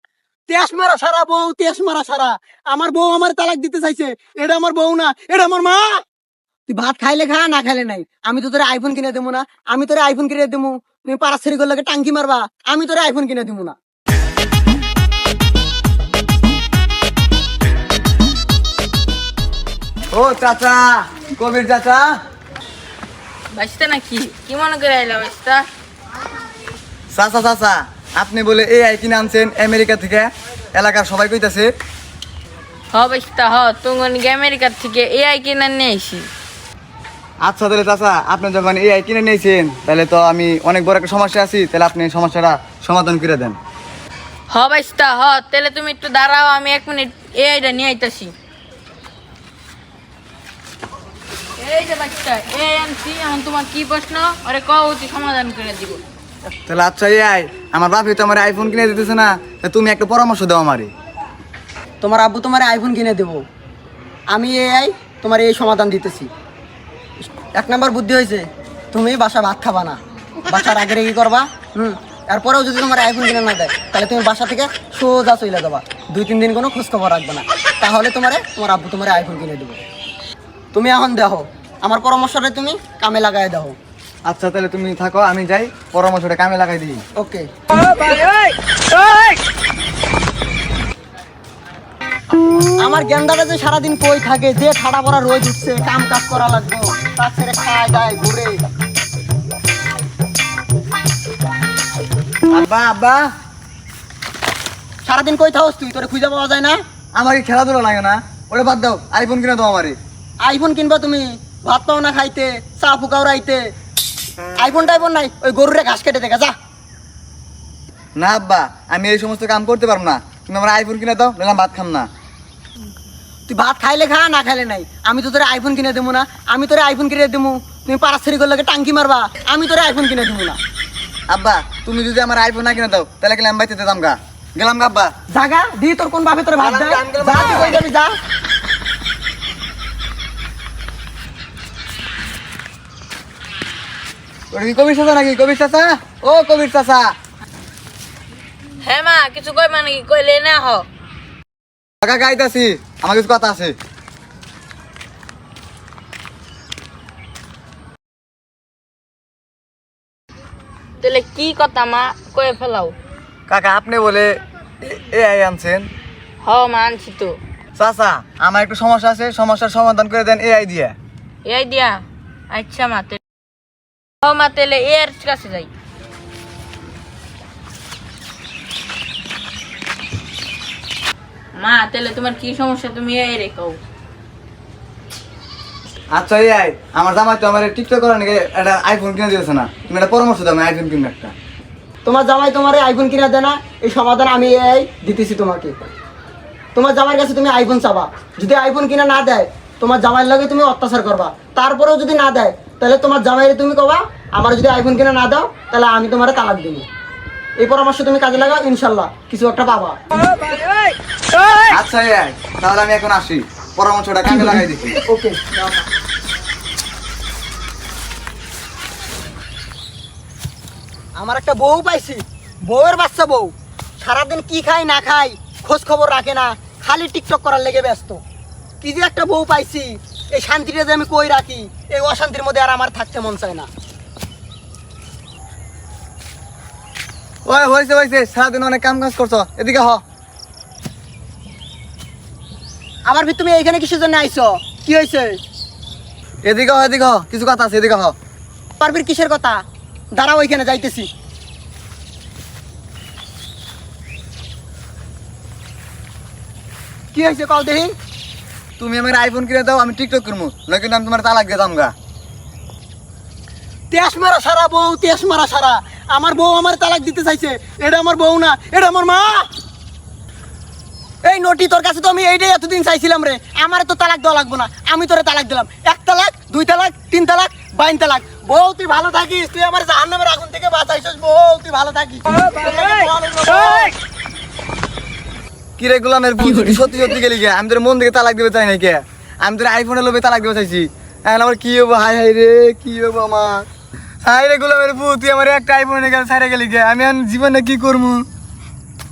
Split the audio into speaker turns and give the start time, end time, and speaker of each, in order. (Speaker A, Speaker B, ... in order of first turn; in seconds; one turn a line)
Speaker A: 0.5-5.9
Speaker A: 6.7-13.8
Speaker B: 20.1-22.1
Speaker C: 23.5-25.6
Speaker B: 27.1-31.7
Speaker C: 32.9-36.3
Speaker B: 37.4-43.6
Speaker C: 44.5-48.3
Speaker C: 51.6-56.0
Speaker B: 56.7-60.9
Speaker A: 62.0-63.4
Speaker A: 64.3-66.3
Speaker A: 67.5-79.8
Speaker A: 80.7-83.8
Speaker B: 84.3-87.0
Speaker A: 87.2-87.5
Speaker A: 92.8-98.6
Speaker B: 102.5-103.3
Speaker A: 105.0-106.8
Speaker B: 107.1-110.0
Speaker A: 110.4-113.7
Speaker A: 114.6-116.5
Speaker B: 118.2-122.1
Speaker A: 123.5-130.6
Speaker B: 131.3-135.1
Speaker A: 135.3-138.1
Speaker B: 136.6-137.8
Speaker B: 144.5-147.1
Speaker C: 148.8-150.8
Speaker B: 152.0-153.7
Speaker C: 161.0-162.9
Speaker B: 163.5-165.8
Speaker C: 166.4-167.4
Speaker B: 167.8-170.9
Speaker C: 171.4-173.2
Speaker C: 174.2-175.7
Speaker C: 181.6-183.8
Speaker B: 186.1-191.3
Speaker A: 192.0-195.8
Speaker A: 196.7-206.8
Speaker A: 207.6-209.9
Speaker B: 211.7-215.0
Speaker A: 214.2-215.5
Speaker A: 221.2-228.2
Speaker A: 228.8-233.7
Speaker B: 237.4-240.0
Speaker A: 243.1-245.4
Speaker B: 246.4-248.1
Speaker A: 248.8-249.6
Speaker A: 250.1-251.1
Speaker A: 257.1-257.9
Speaker B: 258.8-261.9
Speaker A: 263.9-269.5
Speaker A: 271.2-283.9
Speaker B: 285.8-293.6
Speaker B: 294.2-298.2